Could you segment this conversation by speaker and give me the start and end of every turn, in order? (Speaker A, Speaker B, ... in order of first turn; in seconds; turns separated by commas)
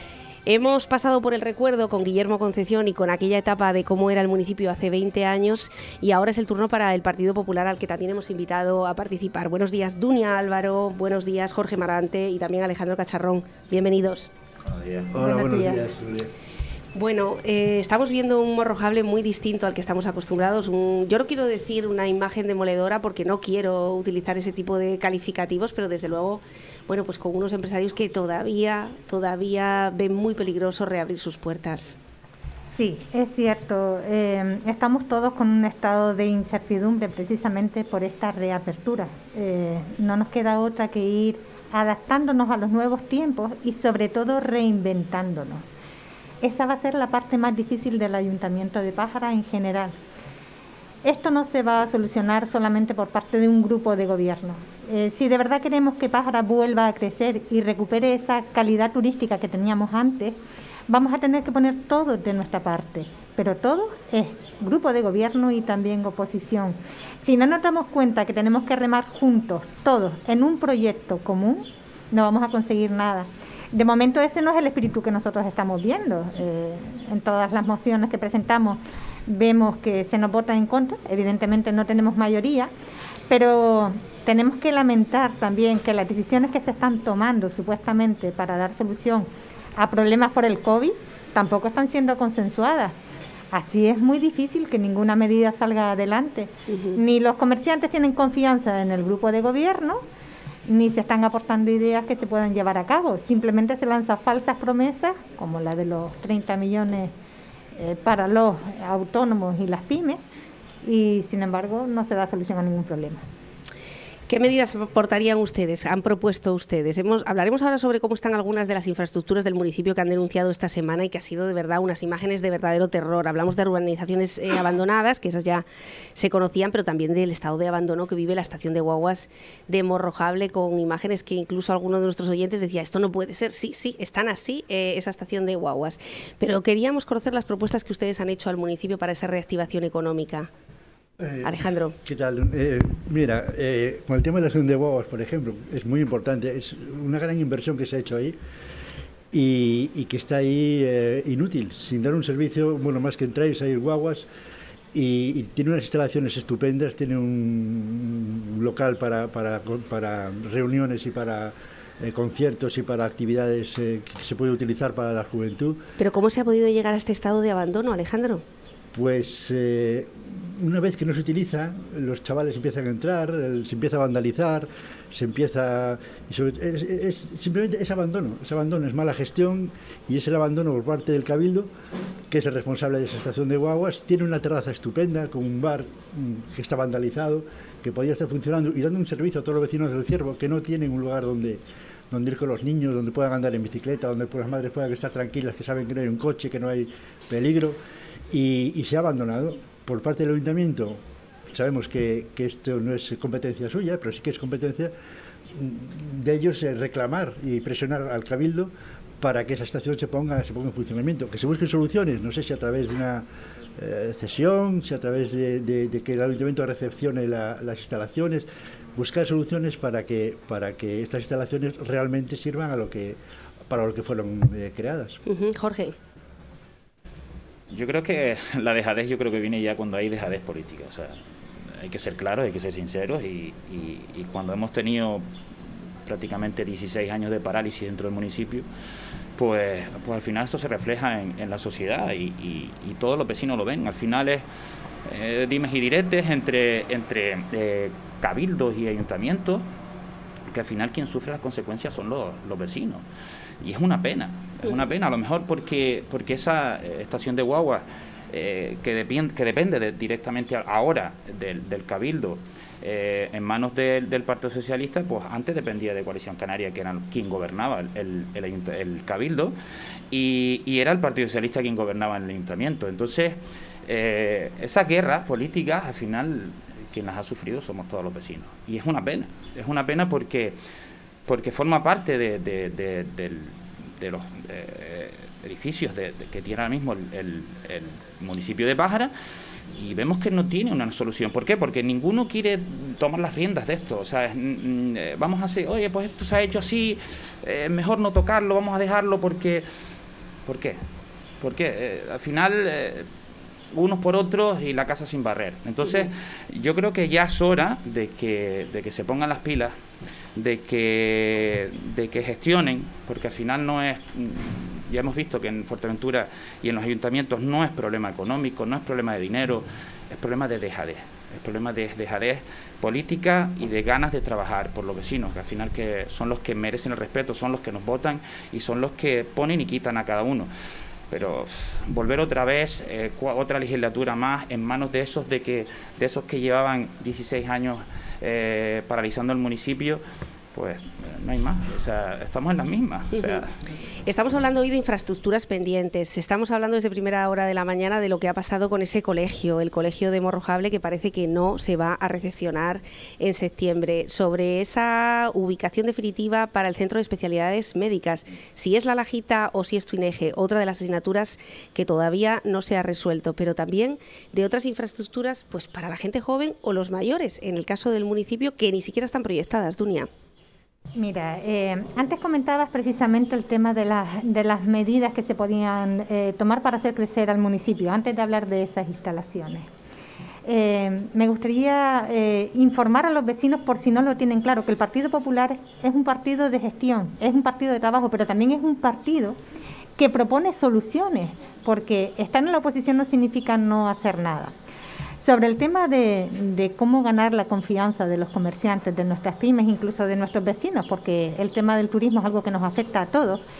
Speaker A: 0.5-14.3, Speaker B: 14.7-15.1, Speaker C: 15.1-16.3, Speaker D: 15.2-15.8, Speaker A: 16.9-32.0, Speaker D: 32.7-45.6, Speaker D: 46.4-49.9, Speaker D: 51.0-82.7, Speaker D: 83.3-93.0, Speaker D: 93.5-100.0, Speaker A: 96.7-97.0, Speaker D: 100.7-107.1, Speaker D: 107.7-110.2, Speaker D: 110.8-113.2, Speaker A: 114.3-140.5, Speaker C: 141.2-148.4, Speaker A: 141.4-141.9, Speaker C: 149.3-154.3, Speaker C: 154.9-165.8, Speaker A: 166.0-168.4, Speaker C: 168.9-181.7, Speaker C: 182.3-197.8, Speaker C: 198.3-204.9, Speaker C: 205.5-213.2, Speaker C: 213.8-223.2, Speaker C: 223.7-225.2, Speaker A: 225.2-225.9, Speaker B: 227.7-231.2, Speaker B: 231.7-235.2, Speaker B: 236.1-238.7, Speaker B: 239.3-244.4, Speaker B: 245.0-249.6, Speaker B: 250.5-253.0, Speaker B: 253.6-269.5, Speaker B: 270.1-280.6, Speaker B: 281.2-289.1, Speaker B: 289.7-299.6, Speaker B: 300.4-300.8, Speaker B: 301.4-303.1, Speaker B: 303.7-309.7, Speaker B: 310.4-330.5, Speaker B: 331.1-340.0, Speaker B: 340.5-343.6, Speaker A: 343.1-343.4, Speaker A: 344.1-370.1, Speaker D: 370.9-379.7, Speaker D: 380.4-389.4, Speaker D: 390.0-394.5, Speaker D: 395.2-403.4